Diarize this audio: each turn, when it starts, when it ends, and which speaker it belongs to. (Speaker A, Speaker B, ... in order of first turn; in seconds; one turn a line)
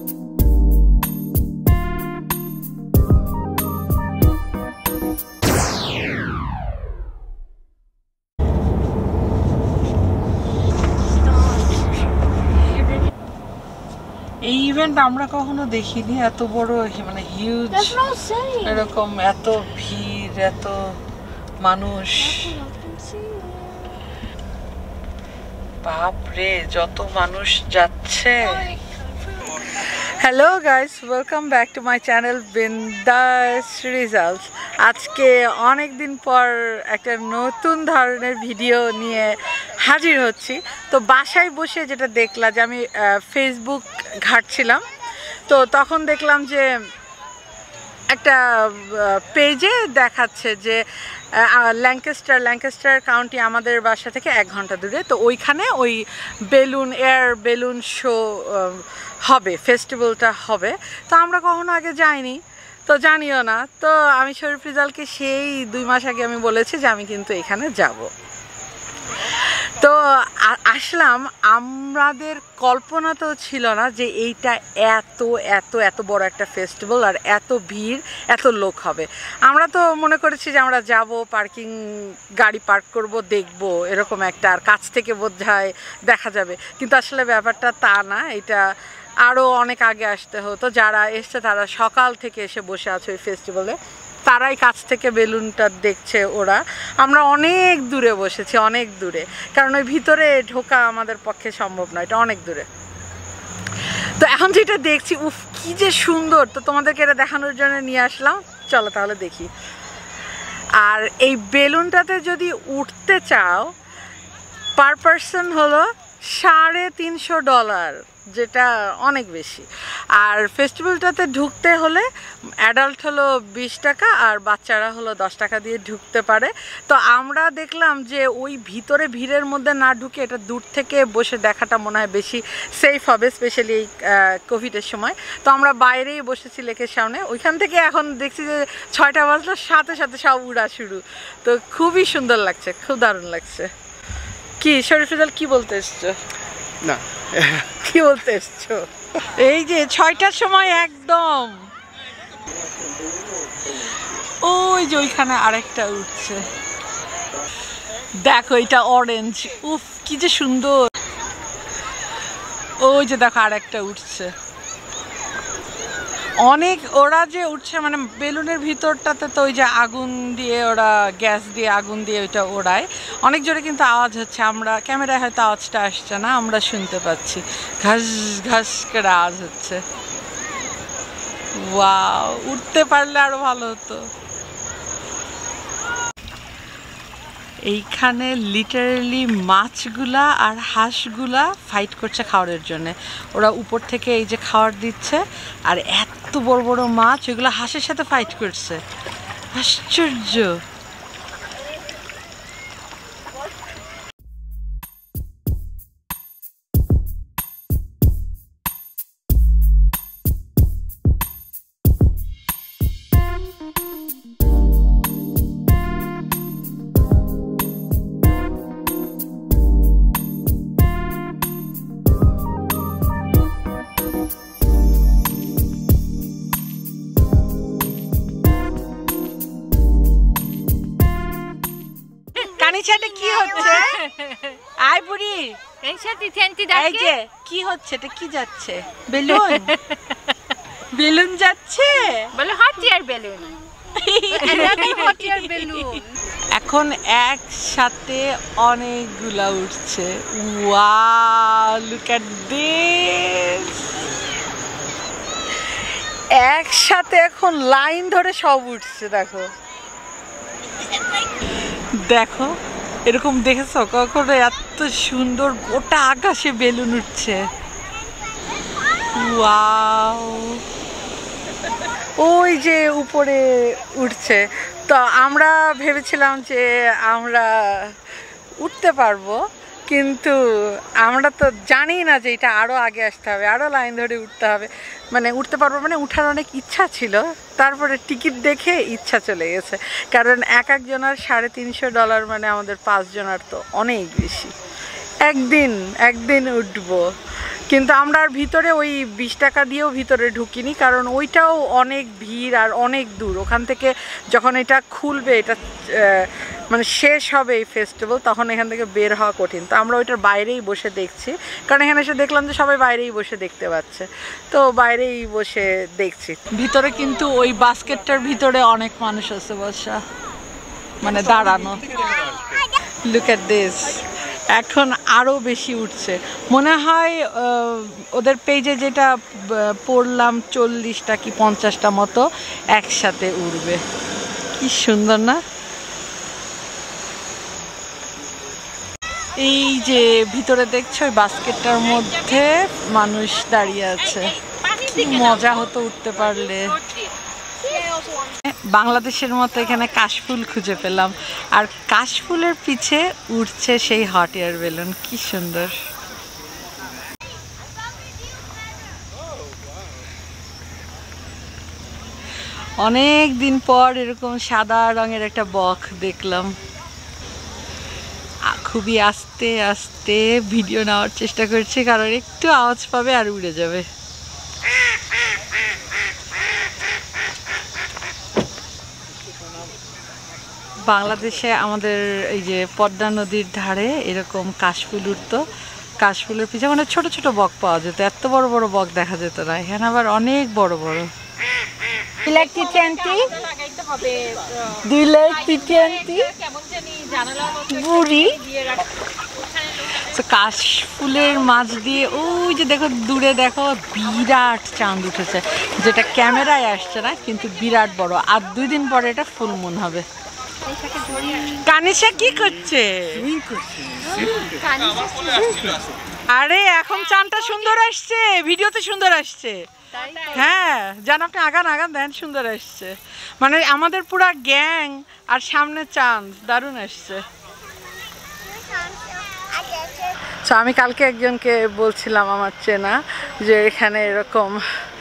Speaker A: 11.2-11.7
Speaker B: 14.5-20.8
Speaker A: 17.9-18.7
Speaker B: 21.6-22.7
Speaker A: 22.5-23.8
Speaker B: 25.8-28.8
Speaker B: 29.4-44.9
Speaker B: 45.5-46.7
Speaker B: 48.1-50.8
Speaker B: 51.4-68.1
Speaker B: 69.1-88.6
Speaker B: 89.2-102.7
Speaker B: 104.2-109.5
Speaker B: 110.8-113.7
Speaker B: 114.8-122.1
Speaker B: 122.6-143.7
Speaker B: 144.6-146.2
Speaker B: 147.5-151.7
Speaker B: 154.1-156.4
Speaker B: 158.2-160.9
Speaker B: 162.8-164.3
Speaker B: 166.4-179.8
Speaker B: 181.6-184.1
Speaker B: 187.7-198.8
Speaker B: 199.5-200.6
Speaker B: 232.3-234.1
Speaker A: 233.6-234.6
Speaker B: 234.8-235.6
Speaker A: 235.8-237.1
Speaker B: 236.7-239.8
Speaker A: 239.3-240.3
Speaker B: 240.9-242.3
Speaker A: 242.3-243.6
Speaker B: 243.9-246.0
Speaker A: 244.4-246.1
Speaker B: 246.5-253.9
Speaker B: 256.4-259.5
Speaker B: 262.0-262.5
Speaker B: 263.1-267.4
Speaker B: 269.1-270.6
Speaker B: 271.8-278.0
Speaker B: 278.6-294.5
Speaker B: 295.2-297.1
Speaker B: 297.7-320.0
Speaker B: 321.0-321.9
Speaker B: 323.1-333.8
Speaker B: 334.6-335.4
Speaker B: 339.4-346.8
Speaker A: 344.5-345.0
Speaker B: 348.4-355.8
Speaker B: 362.8-366.6
Speaker B: 368.5-373.9
Speaker B: 380.9-385.5
Speaker B: 386.0-391.1
Speaker B: 392.1-393.4
Speaker A: 392.6-394.7
Speaker B: 394.7-396.4
Speaker A: 396.4-397.7
Speaker B: 397.6-398.7
Speaker A: 398.5-398.8
Speaker B: 399.7-410.1
Speaker A: 410.7-411.6
Speaker B: 411.4-413.5
Speaker A: 414.0-415.7
Speaker B: 416.1-427.2
Speaker A: 420.0-420.3
Speaker B: 430.4-434.6